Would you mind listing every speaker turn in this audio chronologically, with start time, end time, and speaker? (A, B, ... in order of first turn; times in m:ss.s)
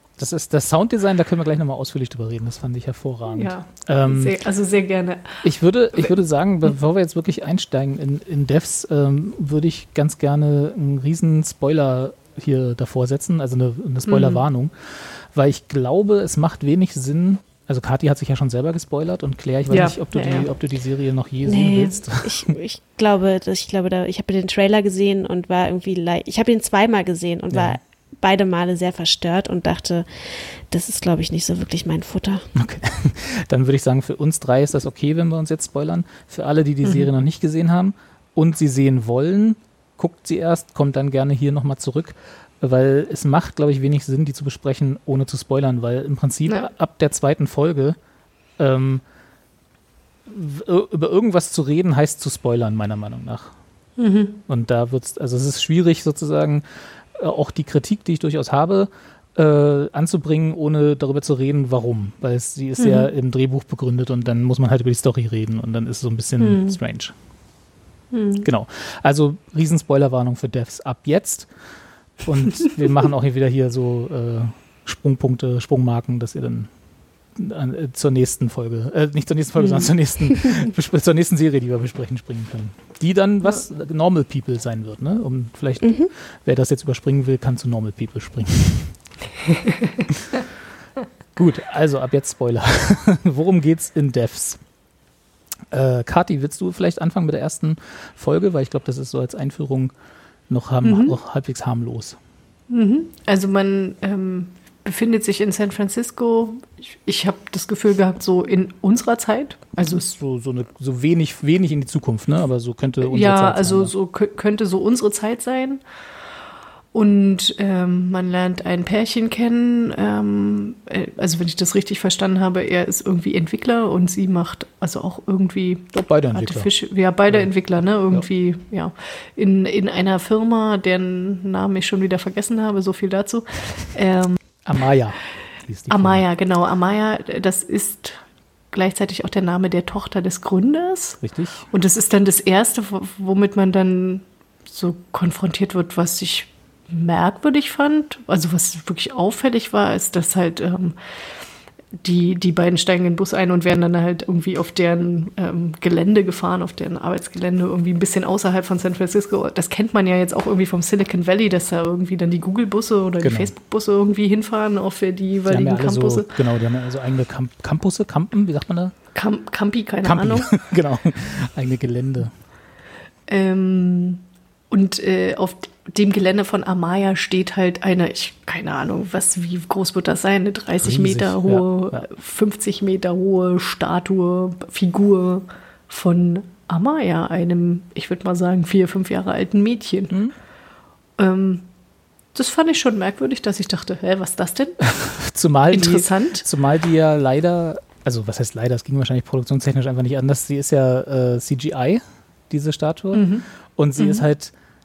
0:00.2-0:04.4 A
0:03.3-0:05.4 B
0:05.4-0:22.5 A
0:14.0-0:14.4 B
0:19.7-0:20.5 B
0:21.4-0:32.5 C
0:27.5-0:27.8 A
0:32.5-0:48.0 A
0:48.6-0:49.0 A
0:50.3-0:53.5 A
0:54.0-0:54.4 B
0:54.5-1:07.1 A
1:02.8-1:03.1 B
1:06.4-1:06.8 B
1:08.1-1:08.5 B
1:08.4-1:11.5 A
1:12.2-1:16.7 A
1:17.3-1:29.0 A
1:19.6-1:19.9 B
1:25.8-1:26.1 C
1:31.4-1:34.6 A
1:35.7-1:39.9 A
1:40.5-1:42.2 A
1:40.8-1:41.2 B
1:42.7-1:50.1 B
1:49.9-1:53.9 A
1:53.0-1:55.8 B
1:56.9-2:14.4 B
2:05.9-2:06.7 A
2:07.3-2:07.5 A
2:14.6-2:16.2 A
2:15.9-2:31.0 B
2:21.2-2:21.7 A
2:32.0-2:46.3 B
2:43.2-2:43.5 A
2:45.5-2:48.9 A
2:49.1-2:50.6 B
2:50.0-2:52.3 A
2:53.3-3:10.2 B
3:00.8-3:02.0 A
3:11.2-3:11.7 B
3:12.3-3:14.9 B
3:14.9-3:24.5 A
3:15.7-3:16.5 B
3:23.1-3:23.4 B
3:24.0-3:24.2 B